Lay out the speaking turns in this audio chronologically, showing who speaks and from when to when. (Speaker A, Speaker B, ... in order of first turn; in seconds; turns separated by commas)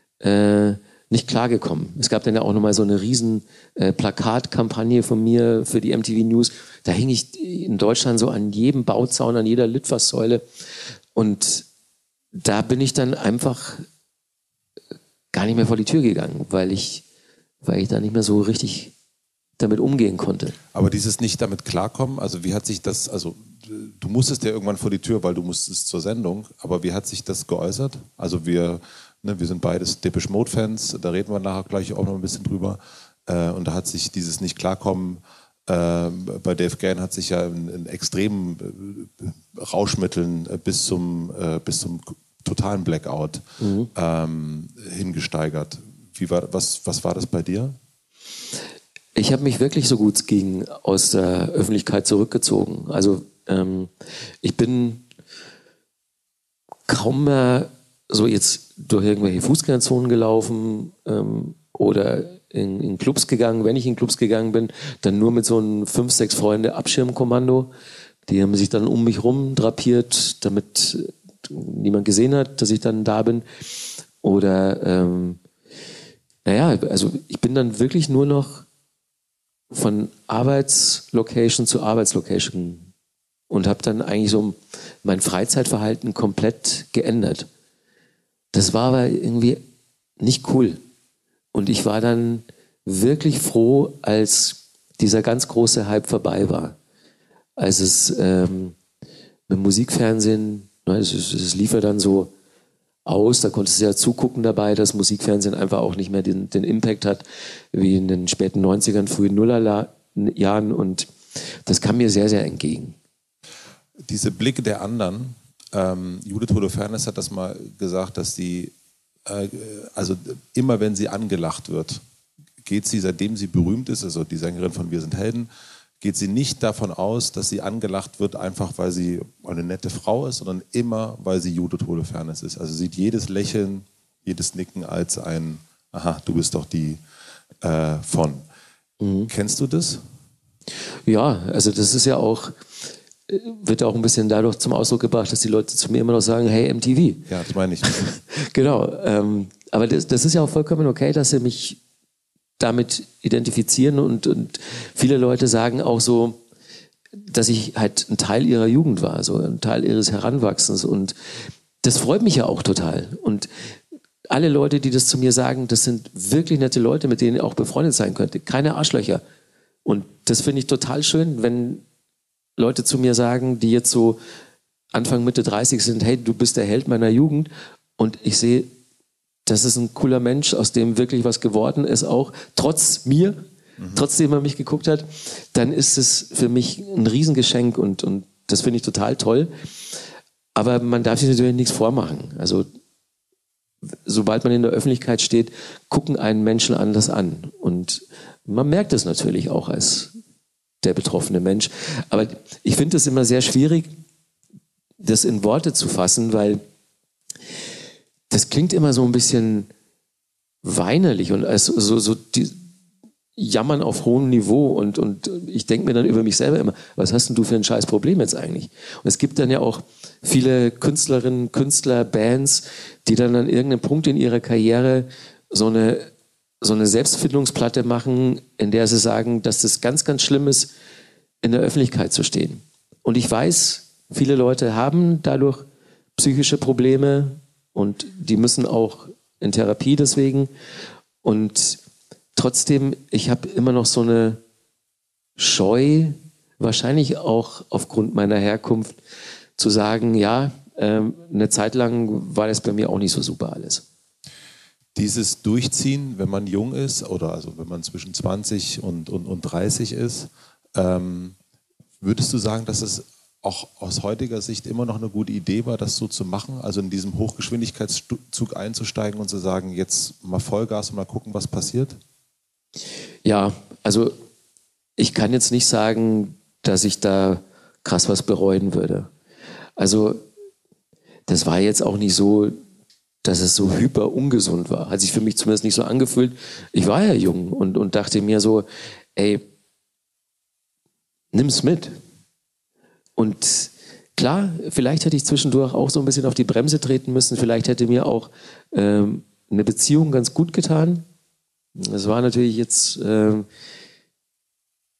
Speaker A: 0.2-10.4, Speaker A: 11.1-11.7, Speaker A: 12.3-13.8, Speaker A: 15.3-17.0, Speaker A: 17.6-18.9, Speaker A: 19.6-20.6, Speaker B: 20.7-43.4, Speaker A: 43.6-43.9, Speaker B: 43.9-47.8, Speaker A: 49.1-53.9, Speaker A: 54.4-55.0, Speaker A: 56.9-67.7, Speaker A: 68.3-73.4, Speaker A: 74.2-75.4, Speaker A: 76.4-78.7, Speaker A: 79.7-82.9, Speaker A: 83.5-87.5, Speaker A: 88.5-89.6, Speaker A: 90.2-90.8, Speaker A: 91.5-96.8, Speaker A: 97.6-98.8, Speaker A: 99.5-102.3, Speaker A: 103.0-111.1, Speaker A: 111.7-113.0, Speaker B: 114.1-118.7, Speaker B: 119.2-122.0, Speaker B: 122.6-125.5, Speaker B: 126.0-137.0, Speaker B: 137.6-138.4, Speaker A: 139.0-139.3, Speaker B: 139.3-140.0, Speaker A: 141.1-142.6, Speaker A: 143.3-147.2, Speaker B: 147.3-148.2, Speaker A: 148.1-151.8, Speaker A: 152.6-156.4, Speaker A: 157.2-161.1, Speaker A: 161.8-163.5, Speaker A: 164.3-169.2, Speaker A: 169.8-171.8, Speaker A: 172.6-174.2, Speaker A: 174.9-178.7, Speaker A: 179.4-189.5, Speaker B: 183.8-184.0, Speaker A: 190.6-192.7, Speaker A: 194.1-200.1, Speaker A: 200.8-203.9, Speaker A: 205.0-206.6, Speaker A: 208.3-209.7, Speaker A: 210.6-212.6, Speaker A: 213.3-226.1, Speaker A: 226.6-230.7, Speaker A: 231.4-235.7, Speaker A: 236.2-240.5, Speaker A: 241.2-241.8, Speaker A: 242.3-244.4, Speaker A: 245.4-248.9, Speaker A: 249.6-253.8, Speaker B: 254.9-261.4, Speaker B: 262.0-272.0, Speaker A: 273.2-274.1, Speaker A: 275.0-279.1, Speaker A: 279.8-280.2, Speaker A: 281.3-282.6, Speaker A: 283.2-289.4, Speaker A: 291.3-291.9, Speaker A: 293.2-301.0, Speaker A: 301.8-303.4